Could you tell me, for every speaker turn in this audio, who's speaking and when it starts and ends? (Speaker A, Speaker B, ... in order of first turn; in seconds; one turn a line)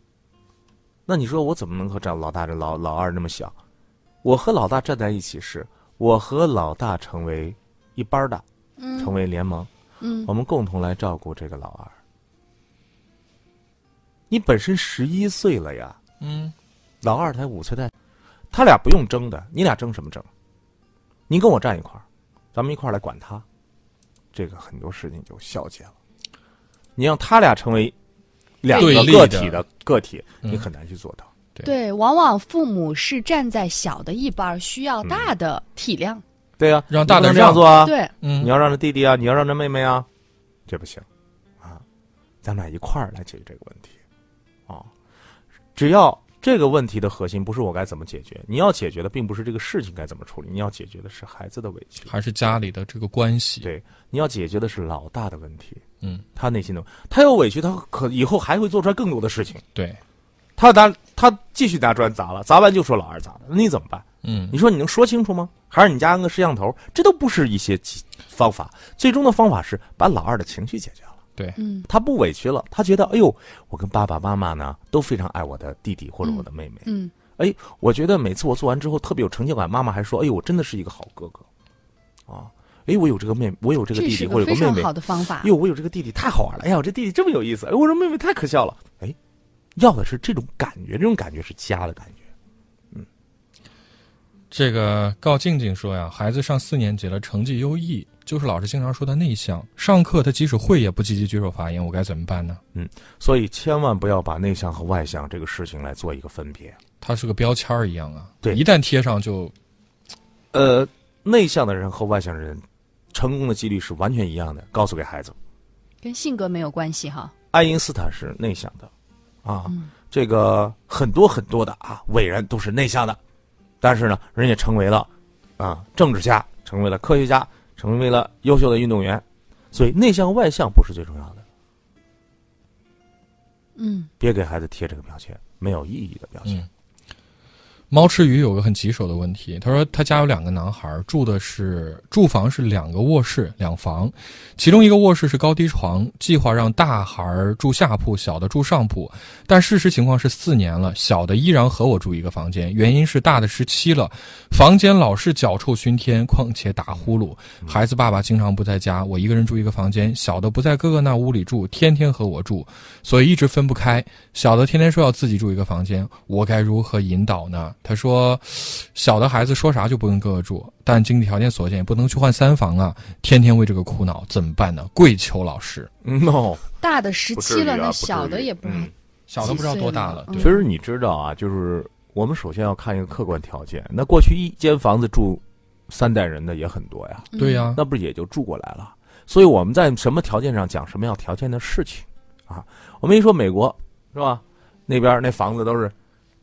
Speaker A: 1.1-3.6
Speaker A: 4.2-8.4
Speaker B: 8.8-9.2
Speaker A: 9.0-9.7
Speaker B: 10.0-10.3
Speaker A: 10.2-12.0
Speaker A: 14.3-16.0
Speaker C: 16.2-16.5
Speaker A: 17.0-17.9
Speaker A: 18.5-20.3
Speaker A: 21.3-23.4
Speaker A: 24.3-25.9
Speaker A: 27.0-28.0
Speaker A: 28.6-31.3
Speaker B: 28.7-29.2
Speaker C: 28.7-29.6
Speaker B: 31.6-36.2
Speaker A: 35.0-35.3
Speaker A: 36.6-40.1
Speaker C: 36.9-38.5
Speaker B: 37.8-38.1
Speaker A: 40.7-41.1
Speaker A: 42.4-44.0
Speaker A: 45.8-52.1
Speaker C: 52.1-53.7
Speaker A: 53.6-55.8
Speaker A: 56.4-59.6
Speaker C: 59.8-60.0
Speaker A: 60.6-71.1
Speaker C: 64.2-64.6
Speaker B: 71.6-71.9
Speaker A: 71.9-76.9
Speaker B: 76.2-77.1
Speaker A: 77.4-81.5
Speaker A: 82.3-89.2
Speaker B: 83.9-85.5
Speaker A: 89.8-92.2
Speaker C: 94.5-102.6
Speaker A: 102.7-106.8
Speaker C: 107.0-109.5
Speaker A: 110.5-115.4
Speaker B: 116.0-117.3
Speaker A: 117.5-118.9
Speaker A: 119.4-123.2
Speaker A: 123.8-131.4
Speaker B: 133.8-134.1
Speaker A: 134.2-136.7
Speaker C: 137.9-175.9
Speaker A: 176.0-176.7
Speaker B: 176.8-178.9
Speaker A: 177.3-178.9
Speaker C: 179.3-180.6
Speaker B: 179.4-180.6
Speaker A: 180.3-195.9
Speaker B: 187.3-187.7
Speaker C: 187.4-187.8